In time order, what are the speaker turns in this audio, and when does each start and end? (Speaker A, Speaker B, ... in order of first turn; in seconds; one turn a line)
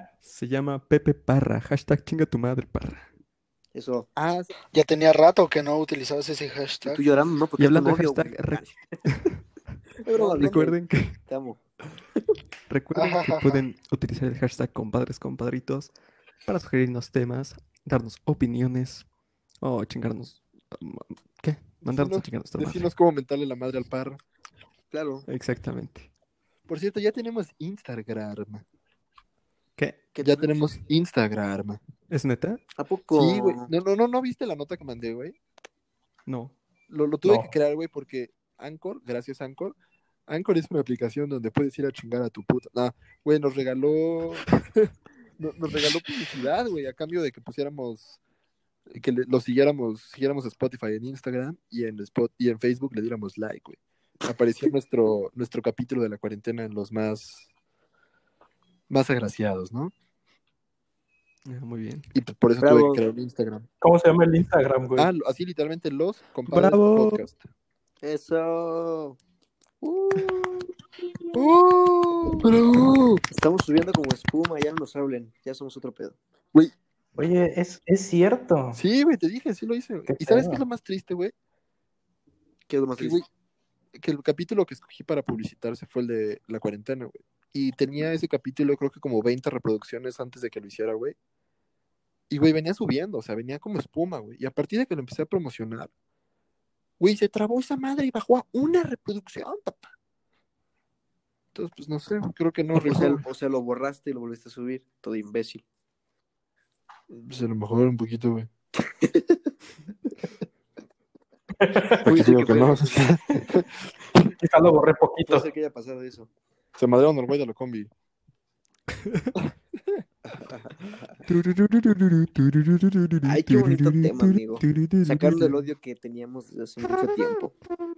Speaker A: 0.2-3.1
Speaker B: 3.7-4.1
Speaker C: 4.2-4.5
Speaker D: 4.7-7.0
Speaker B: 6.8-9.0
Speaker A: 7.6-9.4
Speaker B: 10.0-11.6
Speaker A: 10.2-11.2
Speaker A: 12.7-15.9
Speaker D: 12.9-13.6
Speaker A: 16.4-19.1
Speaker A: 19.6-22.9
Speaker C: 21.8-24.2
Speaker B: 24.9-25.3
Speaker A: 25.3-26.1
Speaker C: 26.7-28.6
Speaker B: 30.1-30.7
Speaker C: 30.2-31.8
Speaker A: 32.1-32.6
Speaker B: 32.8-33.7
Speaker C: 33.1-35.4
Speaker A: 36.3-36.5
Speaker C: 36.9-39.8
Speaker E: 37.2-37.5
Speaker C: 40.3-48.2
Speaker C: 48.9-57.5
Speaker C: 58.9-59.9
Speaker A: 61.5-62.1
Speaker C: 62.1-63.7
Speaker B: 62.6-63.0
Speaker E: 63.8-65.1
Speaker C: 65.0-67.4
Speaker A: 66.5-67.2
Speaker B: 68.0-69.2
Speaker B: 69.8-70.5
Speaker C: 71.3-73.2
Speaker B: 73.3-76.2
Speaker E: 77.2-78.8
Speaker C: 78.8-81.3
Speaker E: 80.1-80.6
Speaker B: 82.7-83.2
Speaker C: 83.0-83.3
Speaker C: 84.0-91.2
Speaker C: 92.3-95.9
Speaker C: 97.0-99.9
Speaker C: 101.5-103.2
Speaker B: 102.7-105.6
Speaker C: 107.1-108.5
Speaker B: 109.0-109.4
Speaker E: 111.6-112.1
Speaker B: 112.0-113.1
Speaker C: 112.0-113.7
Speaker E: 114.3-115.5
Speaker B: 115.3-116.3
Speaker C: 116.8-117.9
Speaker A: 119.0-119.3
Speaker B: 120.3-121.1
Speaker A: 121.3-125.7
Speaker B: 123.2-127.5